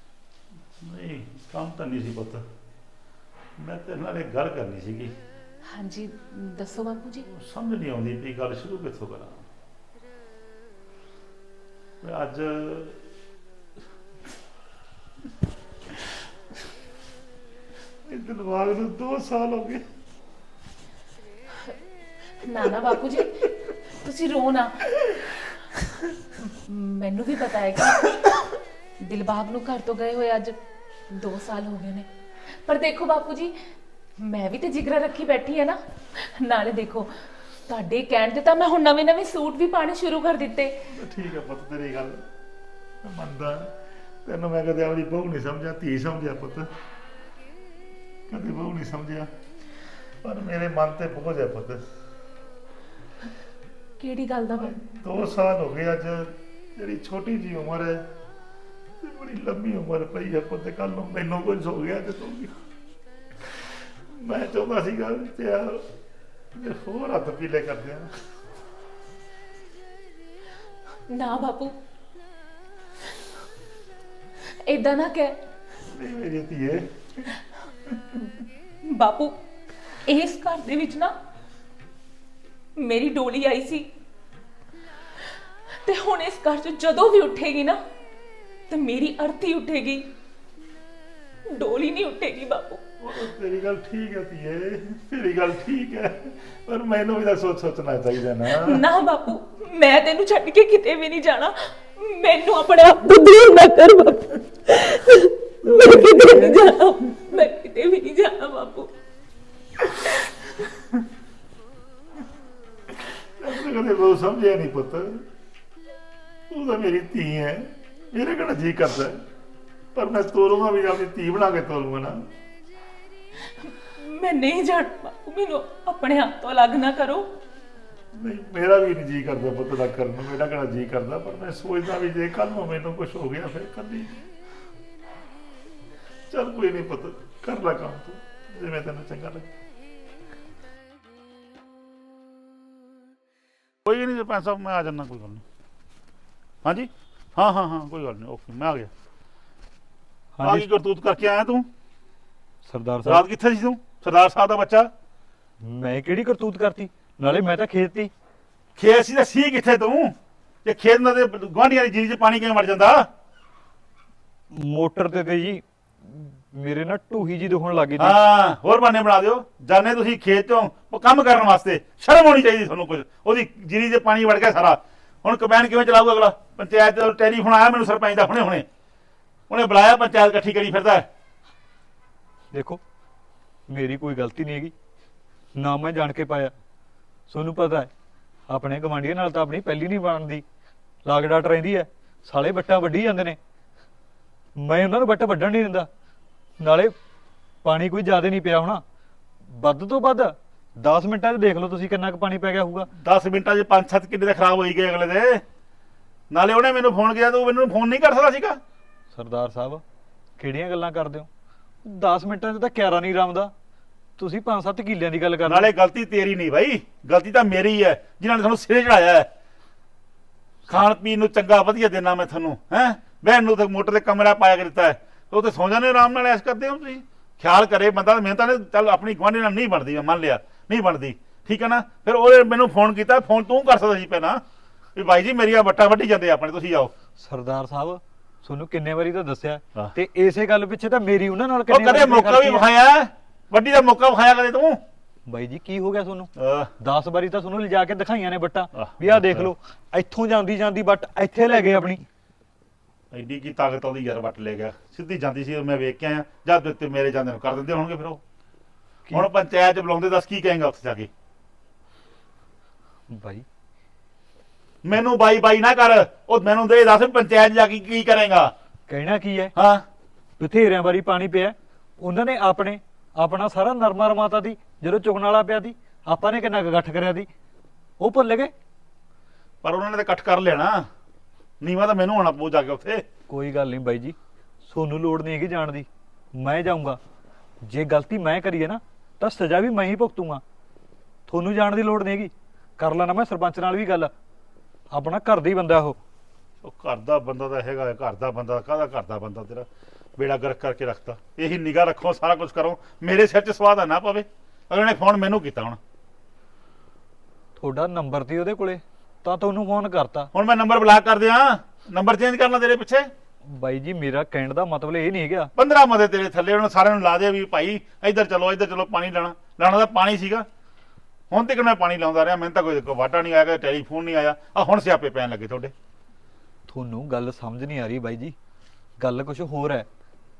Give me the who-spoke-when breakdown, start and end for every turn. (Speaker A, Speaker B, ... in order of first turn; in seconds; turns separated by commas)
Speaker A: 0.8-2.5, Speaker A: 3.6-5.2, Speaker B: 5.6-7.3, Speaker A: 7.3-9.4, Speaker A: 12.0-13.0, Speaker A: 18.1-19.9, Speaker B: 22.4-24.9, Speaker B: 26.4-28.4, Speaker B: 29.0-30.6, Speaker B: 31.1-33.6, Speaker B: 34.2-40.8, Speaker A: 40.9-42.2, Speaker A: 43.0-43.7, Speaker A: 44.2-46.7, Speaker A: 48.3-49.3, Speaker A: 50.2-51.8, Speaker B: 54.0-54.9, Speaker A: 54.6-58.1, Speaker A: 59.0-62.5, Speaker A: 63.5-65.9, Speaker A: 66.5-68.2, Speaker B: 71.1-71.8, Speaker B: 74.5-75.4, Speaker A: 75.9-77.3, Speaker B: 78.8-79.4, Speaker B: 80.0-81.2, Speaker B: 82.8-83.9, Speaker B: 85.7-87.8, Speaker B: 88.7-90.1, Speaker B: 91.5-92.8, Speaker A: 93.0-98.8, Speaker B: 98.5-108.9, Speaker A: 105.6-106.6, Speaker A: 113.4-115.2, Speaker A: 116.5-119.2, Speaker A: 120.0-122.2, Speaker B: 123.4-127.3, Speaker A: 128.1-134.2, Speaker A: 136.3-139.5, Speaker A: 143.8-145.4, Speaker A: 146.6-148.9, Speaker C: 150.3-150.7, Speaker A: 150.4-151.7, Speaker C: 152.7-153.3, Speaker A: 153.0-154.9, Speaker C: 155.6-158.1, Speaker A: 158.8-163.1, Speaker C: 164.5-168.2, Speaker A: 168.0-178.7, Speaker A: 179.5-181.1, Speaker C: 182.5-182.8, Speaker C: 183.7-184.8, Speaker C: 185.6-186.5, Speaker C: 187.3-187.9, Speaker C: 188.5-190.4, Speaker C: 191.0-193.4, Speaker C: 194.6-195.9, Speaker C: 196.6-196.9, Speaker C: 197.6-198.8, Speaker C: 199.5-202.9, Speaker A: 202.9-205.4, Speaker A: 206.3-208.6, Speaker C: 209.1-209.8, Speaker C: 210.4-211.3, Speaker C: 211.8-213.5, Speaker C: 214.2-215.7, Speaker A: 215.5-219.3, Speaker A: 220.7-234.4, Speaker A: 235.0-236.9, Speaker C: 237.2-242.7, Speaker A: 241.7-244.8, Speaker C: 245.3-252.1, Speaker A: 246.4-246.7, Speaker A: 248.8-249.5, Speaker A: 253.1-258.2, Speaker A: 259.1-261.1, Speaker C: 263.1-263.5, Speaker A: 264.8-268.5, Speaker C: 268.9-269.5, Speaker A: 269.6-269.9, Speaker C: 270.4-277.3, Speaker C: 278.0-278.5, Speaker A: 279.6-280.9, Speaker A: 281.6-283.1, Speaker C: 283.3-287.0, Speaker C: 287.6-290.4, Speaker C: 291.3-294.1, Speaker C: 294.9-296.0, Speaker A: 296.6-305.8, Speaker C: 307.6-310.3, Speaker A: 310.3-313.1, Speaker C: 313.5-315.5, Speaker A: 315.6-320.5, Speaker A: 321.3-325.7, Speaker C: 326.7-328.4, Speaker C: 329.0-329.9